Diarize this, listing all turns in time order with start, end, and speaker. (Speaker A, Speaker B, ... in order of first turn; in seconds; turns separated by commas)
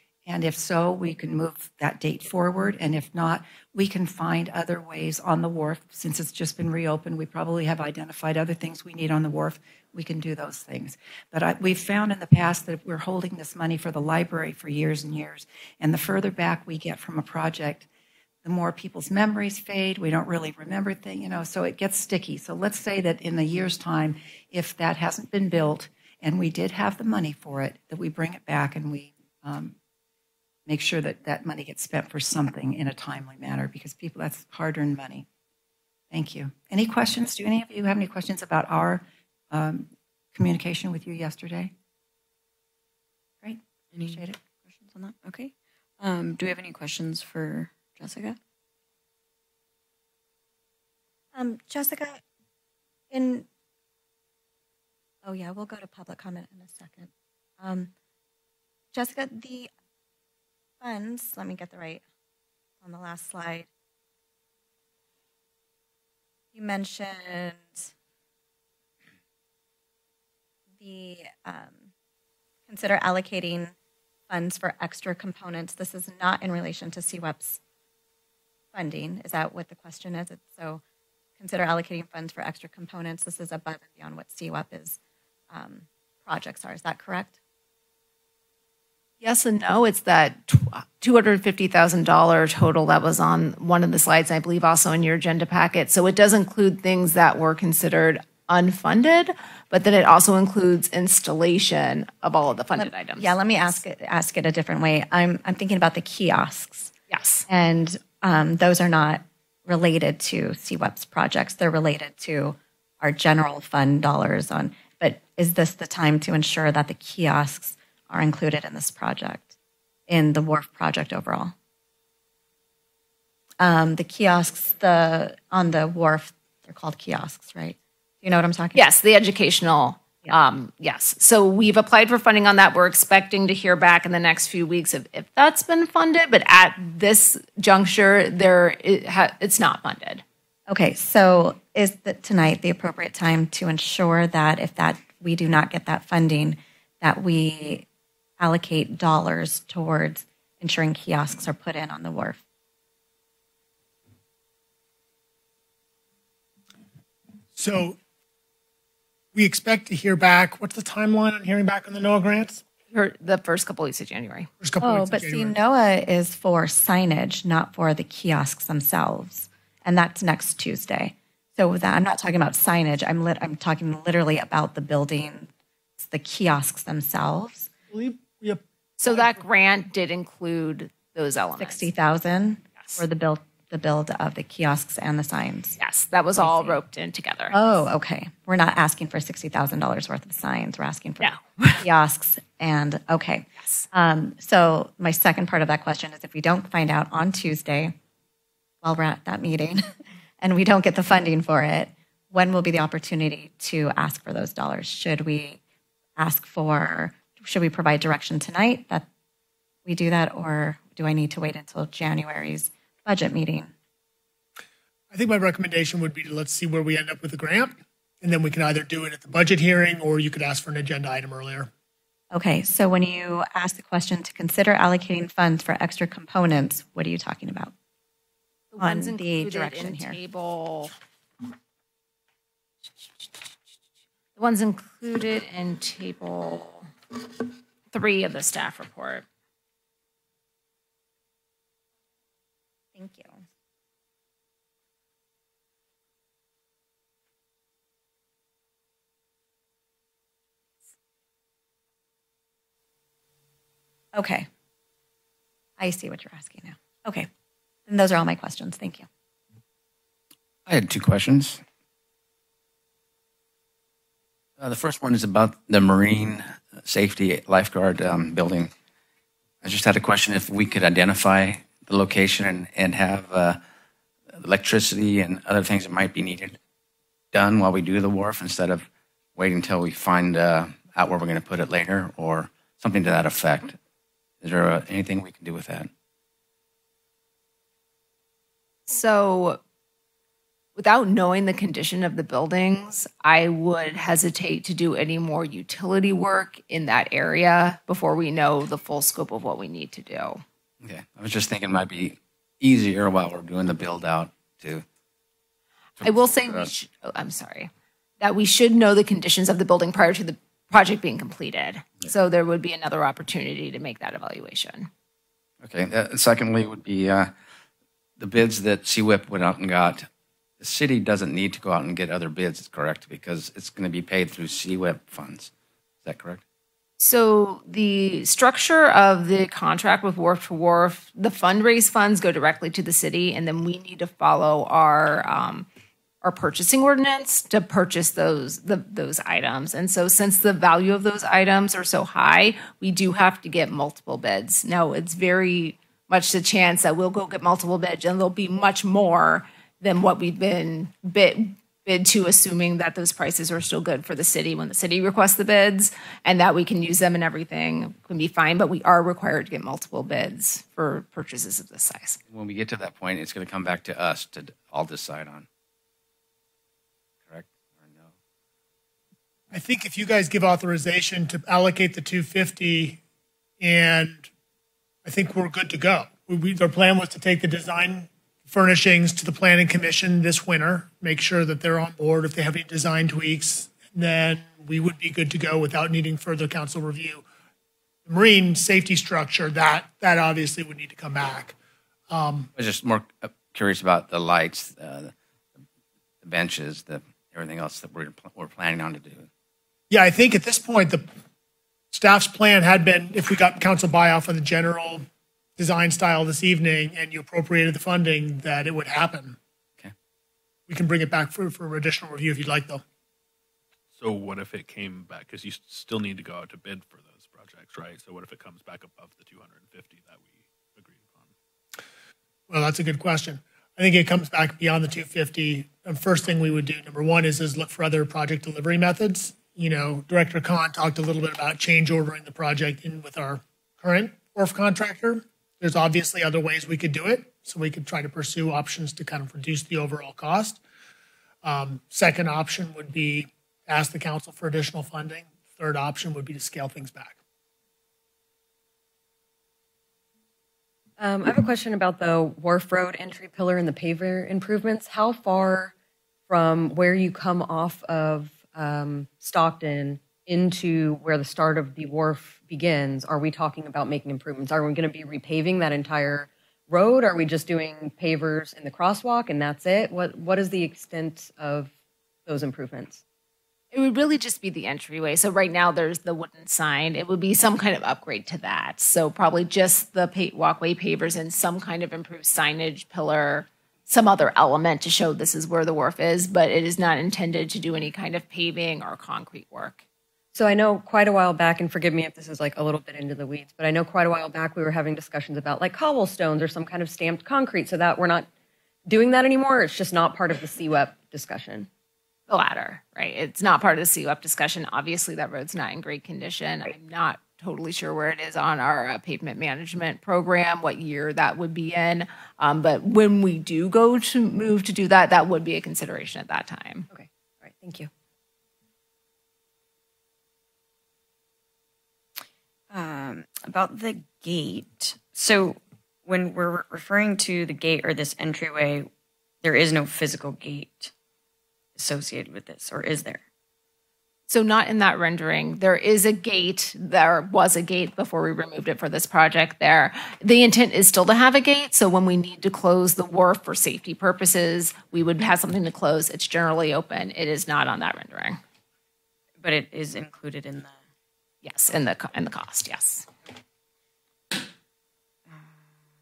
Speaker A: 0.3-17.9, Speaker A: 18.4-29.8, Speaker A: 30.7-35.3, Speaker A: 36.1-41.7, Speaker A: 43.4-44.4, Speaker B: 43.9-48.4, Speaker C: 51.4-52.2, Speaker C: 53.1-53.5, Speaker C: 55.2-57.9, Speaker C: 58.9-59.7, Speaker C: 60.8-62.0, Speaker C: 62.8-63.7, Speaker C: 66.5-67.9, Speaker C: 70.8-71.9, Speaker C: 72.7-73.7, Speaker C: 74.3-77.6, Speaker C: 78.7-80.8, Speaker C: 81.4-85.0, Speaker C: 85.5-87.4, Speaker D: 89.2-103.7, Speaker C: 102.8-106.9, Speaker D: 107.1-107.5, Speaker C: 107.5-119.5, Speaker C: 120.1-121.5, Speaker C: 123.6-128.8, Speaker D: 128.8-140.2, Speaker C: 140.7-147.8, Speaker C: 148.4-152.4, Speaker E: 157.5-158.0, Speaker E: 159.3-162.6, Speaker D: 162.9-164.5, Speaker E: 164.6-165.6, Speaker C: 164.8-177.7, Speaker E: 177.9-179.3, Speaker D: 179.0-181.9, Speaker C: 181.6-185.8, Speaker D: 182.8-183.0, Speaker D: 185.8-187.6, Speaker C: 186.4-186.8, Speaker C: 187.5-197.9, Speaker D: 191.2-191.9, Speaker D: 193.6-193.9, Speaker C: 198.8-205.6, Speaker C: 206.2-209.1, Speaker C: 209.9-213.7, Speaker E: 215.1-221.7, Speaker C: 222.3-227.7, Speaker D: 228.7-230.9, Speaker C: 228.8-230.2, Speaker D: 234.4-236.9, Speaker D: 237.9-239.2, Speaker C: 242.9-243.4, Speaker C: 254.1-254.5, Speaker C: 255.8-257.3, Speaker C: 257.9-259.1, Speaker F: 260.7-261.6, Speaker F: 264.6-268.7, Speaker F: 269.6-273.6, Speaker F: 274.4-276.6, Speaker F: 277.3-283.8, Speaker F: 284.4-285.9, Speaker D: 288.9-289.6, Speaker D: 290.8-300.4, Speaker F: 300.8-304.9, Speaker D: 306.0-314.9, Speaker F: 315.6-317.3, Speaker F: 318.2-320.1, Speaker F: 320.6-325.5, Speaker F: 326.0-326.4, Speaker D: 327.0-335.7, Speaker D: 336.2-362.2, Speaker F: 362.3-365.5, Speaker F: 367.3-368.1, Speaker E: 369.5-373.0, Speaker E: 373.6-374.3, Speaker E: 375.1-387.2, Speaker E: 388.1-391.6, Speaker E: 392.1-392.5, Speaker F: 392.6-395.1, Speaker F: 396.2-399.3, Speaker E: 399.9-401.1, Speaker E: 401.9-405.1, Speaker E: 405.6-409.4, Speaker E: 410.7-412.8, Speaker G: 413.9-421.3, Speaker E: 422.5-440.6, Speaker E: 441.4-447.2, Speaker H: 451.0-455.7, Speaker H: 456.3-471.7, Speaker H: 472.3-473.0, Speaker D: 473.7-489.8, Speaker H: 490.3-498.3, Speaker H: 498.9-501.7, Speaker D: 502.3-516.9, Speaker H: 516.9-517.9, Speaker B: 522.7-528.9, Speaker B: 529.4-530.9, Speaker B: 531.8-533.2, Speaker D: 534.3-548.4, Speaker B: 549.4-550.8, Speaker D: 551.4-553.1